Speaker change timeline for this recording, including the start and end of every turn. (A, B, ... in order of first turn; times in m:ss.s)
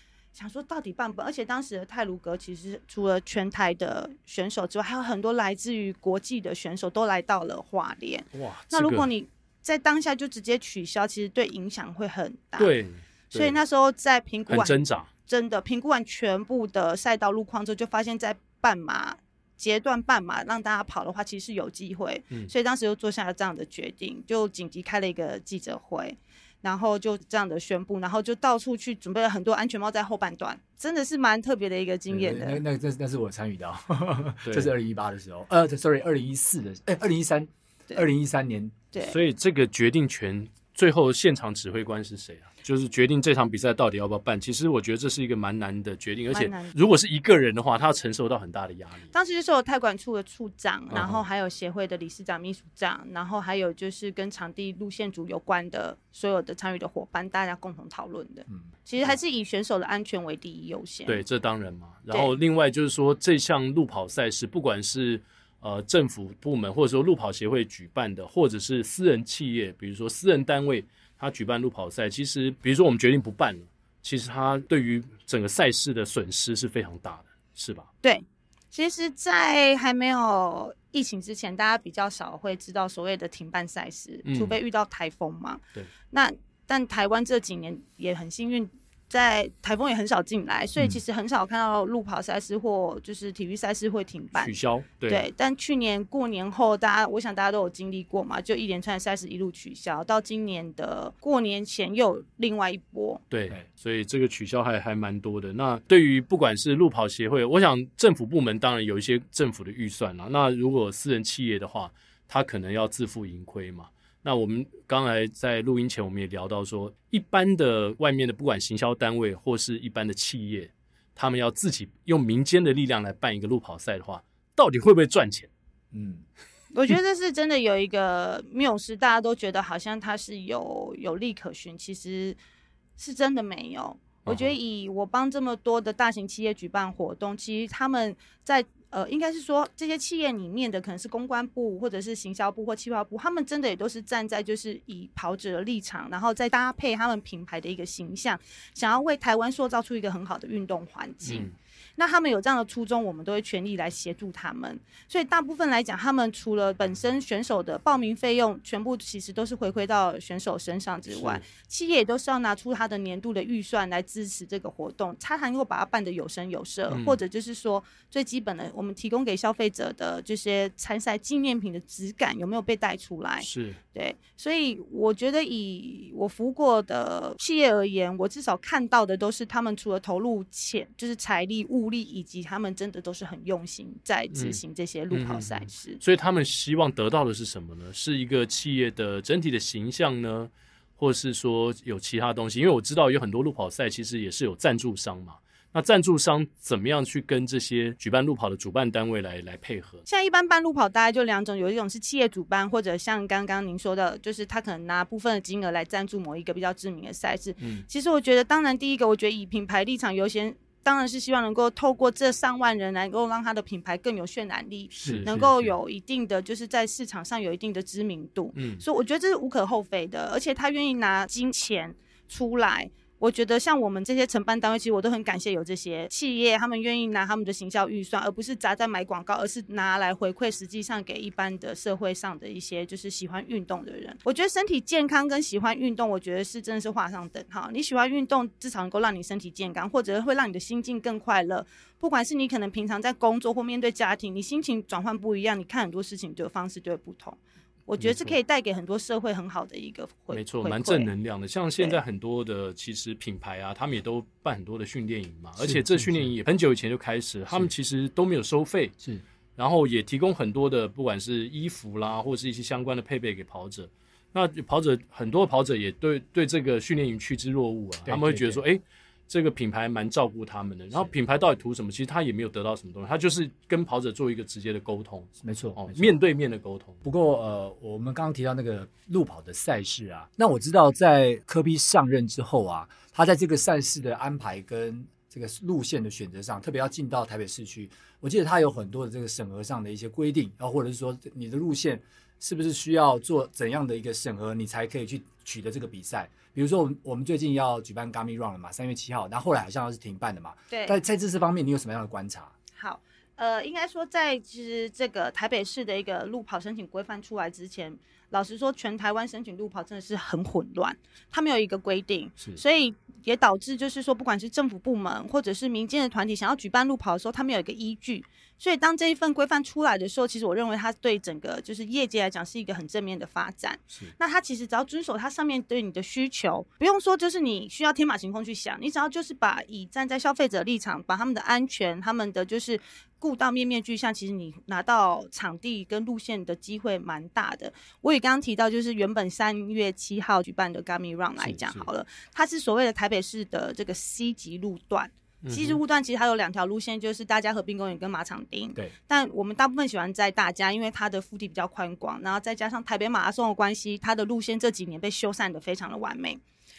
0:00.3-0:12.7 A
0:08.3-0:09.1 B
0:12.6-0:13.6 B
0:13.3-0:32.6 A
0:14.5-0:15.1 B
0:32.1-0:38.8 C
0:34.4-0:34.7 B
0:38.9-0:39.2 A
0:39.0-0:49.1 B
0:46.3-0:46.7 A
0:49.1-1:01.2 A
0:50.9-0:51.2 B
1:01.1-1:17.9 B
1:18.0-1:34.5 A
1:24.2-1:24.6 B
1:34.3-1:35.2 B
1:35.1-1:43.2 A
1:43.3-2:05.5 B
2:05.9-2:06.2 C
2:06.7-2:12.4 A
2:13.0-3:06.0 A
2:14.2-2:14.6 B
2:31.2-2:31.5 B
2:41.1-2:41.4 B
2:46.9-2:47.2 B
2:53.4-2:53.8 B
3:04.3-3:04.6 B
3:05.1-3:20.0 B
3:20.1-4:11.1 A
3:27.6-3:27.8 B
3:35.0-3:35.7 B
3:35.0-3:35.3 C
3:38.5-3:38.8 B
4:08.0-4:08.4 B
4:10.3-4:18.9 B
4:15.6-4:16.3 C
4:19.6-4:37.0 B
4:28.0-4:28.6 C
4:35.4-4:36.2 C
4:37.0-5:02.5 C
5:00.7-5:01.0 A
5:02.8-5:56.4 A
5:41.4-5:41.8 B
5:45.4-5:45.8 B